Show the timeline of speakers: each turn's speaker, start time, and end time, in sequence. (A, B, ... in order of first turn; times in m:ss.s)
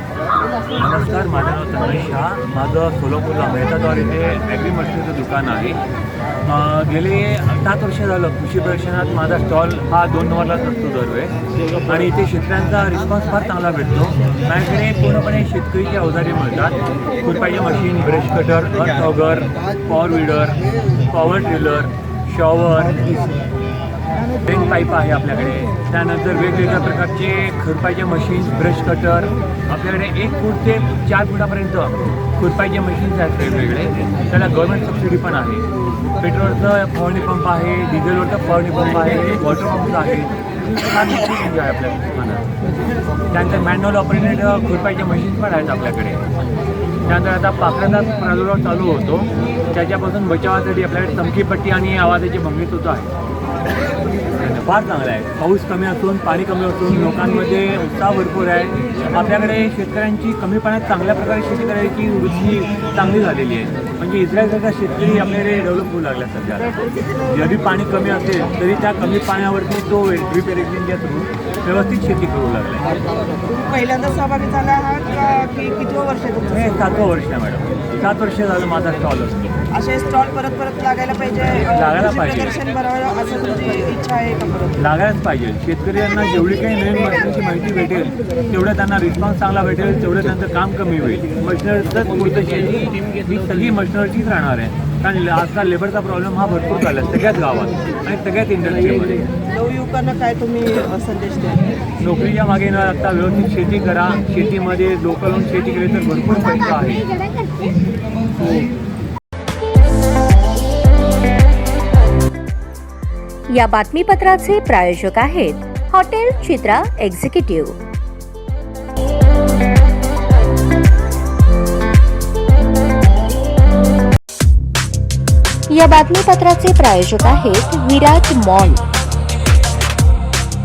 0:00.7-0:05.8 A
0:06.4-0:20.6 A
0:21.1-0:23.4 A
0:24.4-0:35.6 A
0:36.2-0:42.4 A
0:43.3-0:46.2 A
0:47.1-0:53.1 A
0:54.4-1:12.9 A
1:13.4-1:17.0 B
1:16.5-1:19.6 A
1:19.7-1:24.8 B
1:21.7-1:22.6 A
1:24.8-1:39.3 A
1:39.5-1:41.8 B
1:42.0-1:47.1 A
1:53.5-1:57.8 C
2:05.7-2:08.8 C